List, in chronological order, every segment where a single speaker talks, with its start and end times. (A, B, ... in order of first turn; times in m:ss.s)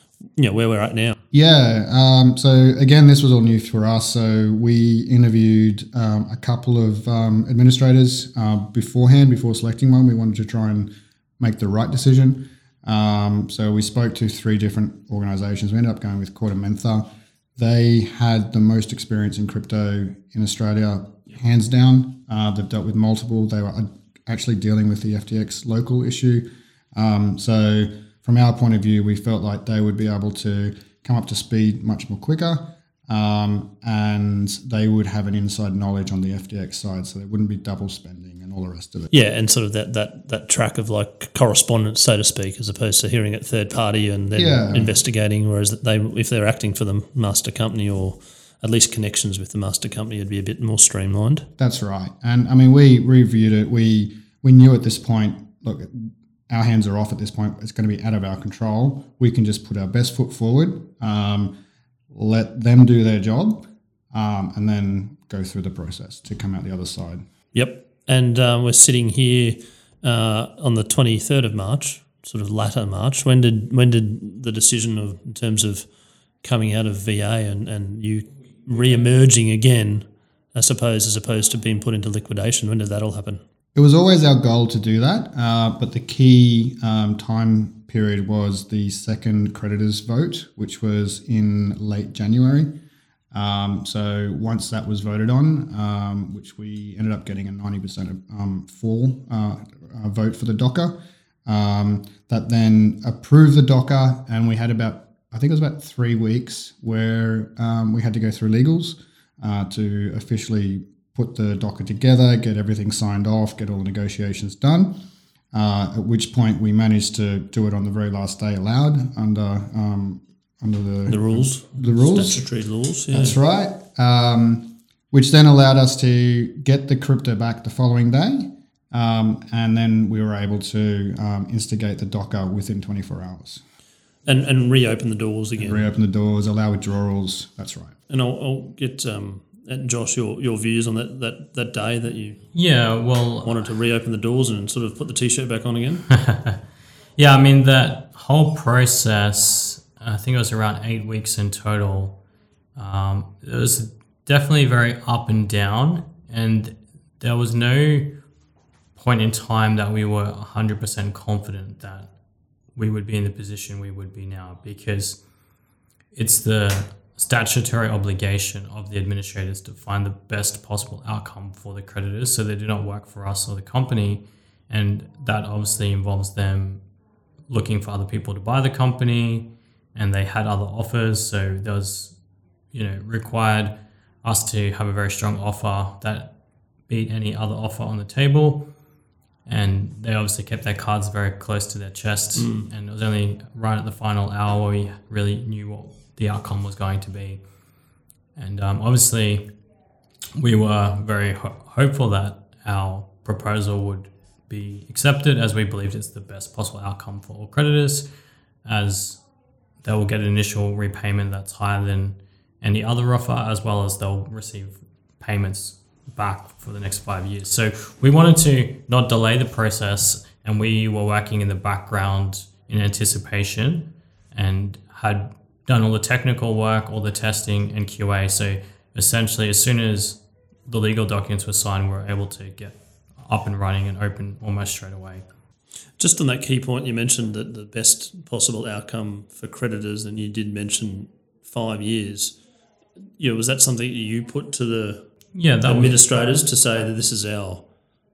0:00.3-0:01.2 A
0:01.3-0:39.1 B
0:39.1-0:51.5 A
0:44.4-0:45.0 B
0:51.6-1:01.5 B
1:02.1-1:07.3 B
1:07.5-1:15.9 A
1:16.4-1:23.4 A
1:23.8-1:32.7 B
1:33.3-1:41.0 B
1:41.5-1:55.0 B
1:55.5-2:02.4 B
2:01.1-2:03.4 A
2:03.1-2:13.6 B
2:14.2-2:15.9 A
2:15.6-2:18.0 B
2:18.1-2:22.4 A
2:22.5-2:23.7 C
2:23.4-2:26.0 A
2:26.1-2:26.6 C
2:27.2-2:32.2 C
2:32.8-2:38.1 C
2:39.0-2:42.1 C
2:42.8-2:45.2 C
2:46.1-2:56.8 C
2:57.5-3:02.1 C
3:02.7-3:06.3 C
3:06.9-3:08.7 C
3:09.5-3:17.4 C
3:12.4-3:12.7 A
3:18.4-3:19.5 C
3:20.4-3:28.1 C
3:28.6-3:29.2 C
3:29.8-3:55.2 C
3:56.0-4:02.4 A
4:03.2-4:05.1 A
4:05.3-4:06.0 C
4:05.6-4:07.6 A